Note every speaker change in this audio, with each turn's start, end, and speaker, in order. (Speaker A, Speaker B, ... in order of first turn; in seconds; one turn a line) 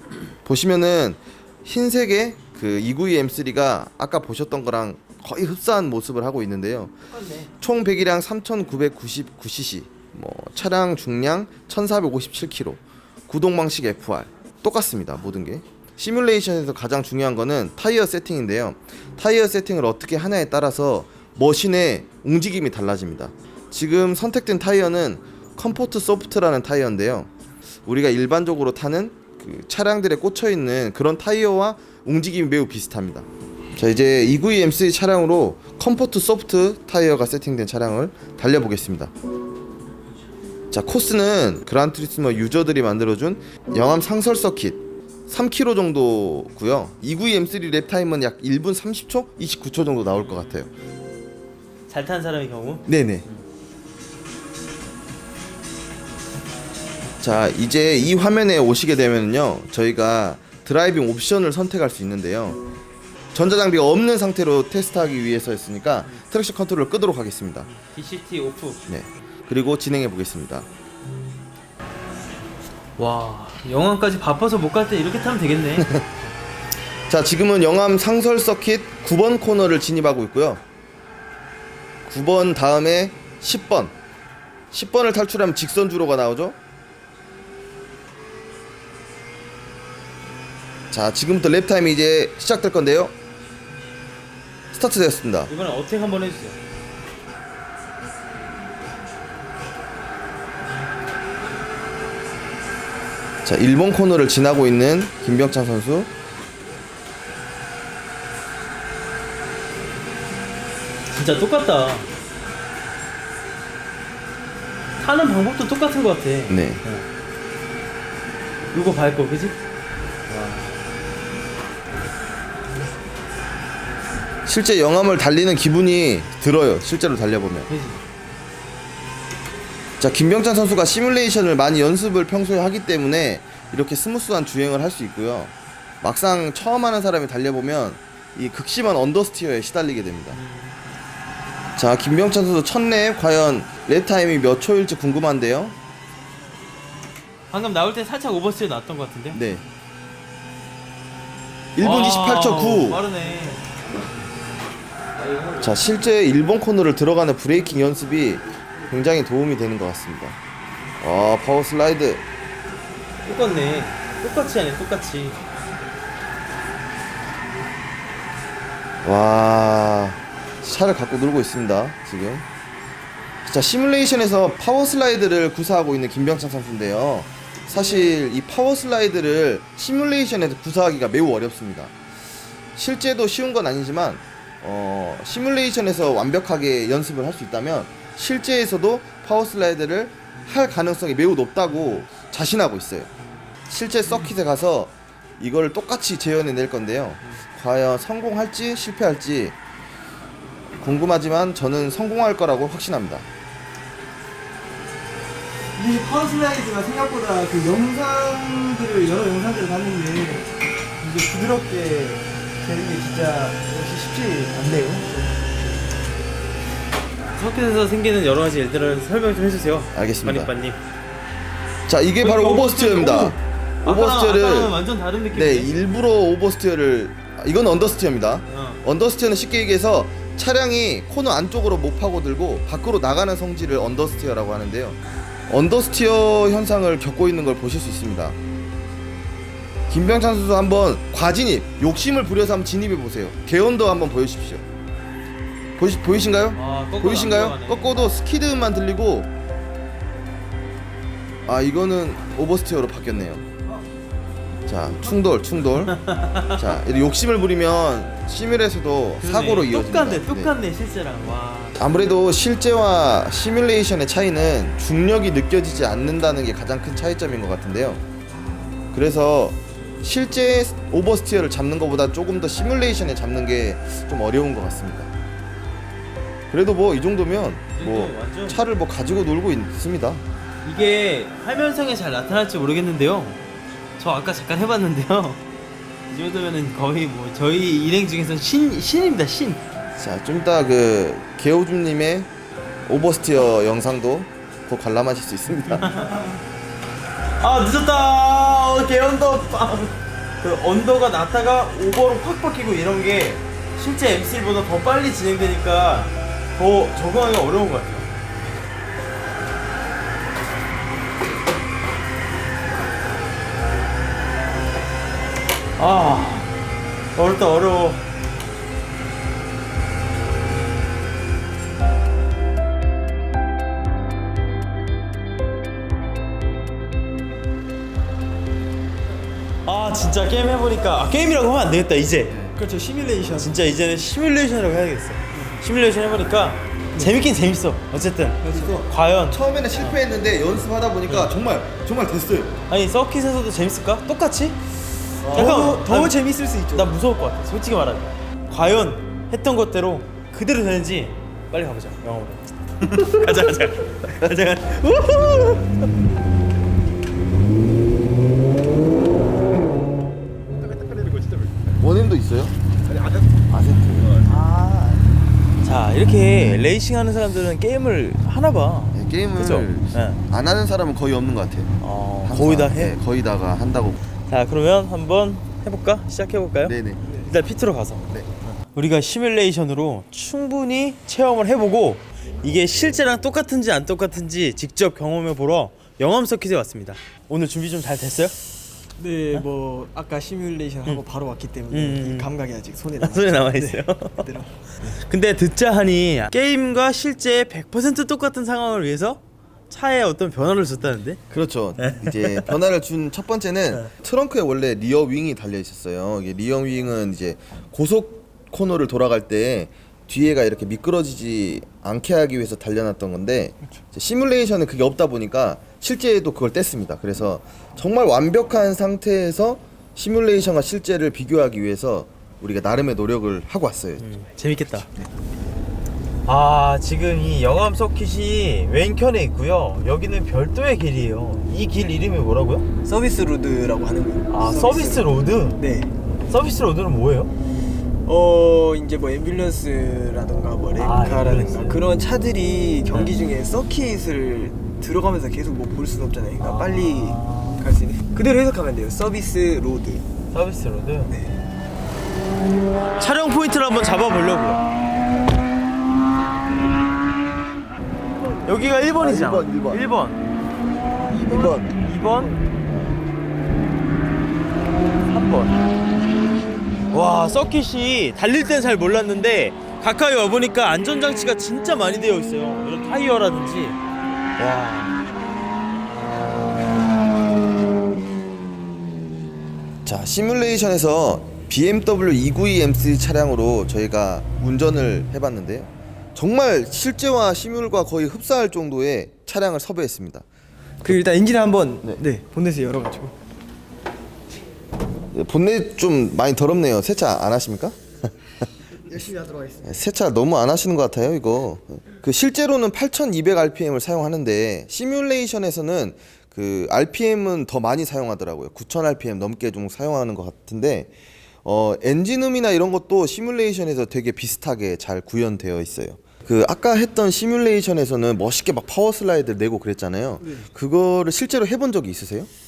Speaker A: 0.5-6.9
Speaker B: 7.1-7.5
Speaker A: 7.6-27.3
Speaker A: 27.9-39.1
Speaker A: 40.7-50.7
Speaker B: 51.9-52.9
Speaker A: 52.9-53.2
Speaker A: 57.2-62.6
Speaker A: 63.3-67.7
Speaker B: 67.7-68.8
Speaker A: 68.9-70.7
Speaker B: 73.0-75.9
Speaker A: 75.8-76.0
Speaker A: 77.1-80.6
Speaker A: 82.0-83.9
Speaker A: 84.7-86.6
Speaker A: 90.9-93.1
Speaker A: 94.7-95.5
Speaker B: 95.5-96.6
Speaker A: 103.5-106.1
Speaker B: 111.1-112.1
Speaker B: 115.0-117.0
Speaker A: 116.5-116.8
Speaker B: 118.7-119.6
Speaker B: 120.3-120.8
Speaker A: 124.5-127.7
Speaker B: 127.7-128.0
Speaker A: 130.0-140.4
Speaker B: 140.3-140.8
Speaker A: 141.8-145.8
Speaker B: 147.5-149.4
Speaker A: 149.3-149.6
Speaker A: 151.8-153.0
Speaker B: 151.8-153.6
Speaker A: 155.6-160.4
Speaker A: 161.0-162.2
Speaker B: 163.2-165.4
Speaker A: 169.0-172.4
Speaker A: 173.4-181.9
Speaker A: 182.8-193.1
Speaker A: 193.7-199.6
Speaker A: 200.8-203.3
Speaker C: 205.8-215.4
Speaker B: 217.3-220.8
Speaker A: 219.9-220.5
Speaker A: 221.9-224.8
Speaker B: 222.2-225.7
Speaker A: 225.3-238.4
Speaker B: 228.5-228.8
Speaker A: 239.9-244.6
Speaker A: 245.8-249.3
Speaker B: 246.6-248.0
Speaker A: 251.5-253.4
Speaker A: 254.7-256.0
Speaker B: 255.9-256.8
Speaker A: 256.5-260.5
Speaker B: 259.2-261.8
Speaker A: 261.8-268.0
Speaker A: 268.9-275.1
Speaker A: 276.5-280.2
Speaker B: 277.7-278.6
Speaker B: 280.6-283.4
Speaker B: 284.0-285.4
Speaker B: 286.1-289.6
Speaker A: 290.0-292.3
Speaker A: 292.9-295.9
Speaker B: 295.8-296.4
Speaker B: 297.4-308.1
Speaker B: 315.8-316.5
Speaker B: 317.2-318.0
Speaker B: 329.7-332.4
Speaker A: 332.3-332.6
Speaker C: 332.6-333.6
Speaker B: 333.4-340.0
Speaker C: 335.3-335.6
Speaker C: 338.4-338.8
Speaker A: 339.3-342.6
Speaker B: 341.1-341.4
Speaker B: 342.7-344.6
Speaker C: 345.2-346.9
Speaker B: 345.3-346.1
Speaker B: 346.7-355.7
Speaker C: 360.7-361.6
Speaker A: 361.8-362.6
Speaker C: 362.9-363.3
Speaker A: 363.5-364.2
Speaker B: 364.2-365.0
Speaker B: 365.6-370.2
Speaker A: 368.9-374.0
Speaker B: 371.8-372.9
Speaker B: 374.3-378.0
Speaker A: 376.6-377.0
Speaker B: 378.7-388.4
Speaker C: 389.0-394.7
Speaker B: 391.7-392.3
Speaker B: 393.0-394.3
Speaker B: 394.8-401.2
Speaker A: 401.3-424.1
Speaker B: 401.8-402.4
Speaker B: 424.0-424.9
Speaker B: 426.3-432.6
Speaker C: 432.8-435.9
Speaker B: 434.3-435.6
Speaker B: 436.3-437.3
Speaker C: 438.1-450.0
Speaker B: 440.8-441.9
Speaker B: 446.4-447.7
Speaker B: 450.3-451.2
Speaker C: 451.1-451.4
Speaker B: 453.0-454.6
Speaker B: 458.4-460.2
Speaker A: 459.0-459.8
Speaker C: 461.1-462.3
Speaker A: 461.2-461.7
Speaker B: 461.7-462.4
Speaker B: 465.1-465.5
Speaker B: 466.9-473.8
Speaker B: 474.4-475.0
Speaker A: 479.9-490.2
Speaker C: 490.8-493.1
Speaker A: 495.1-497.8
Speaker C: 498.9-499.6
Speaker A: 499.6-510.9
Speaker A: 511.4-522.3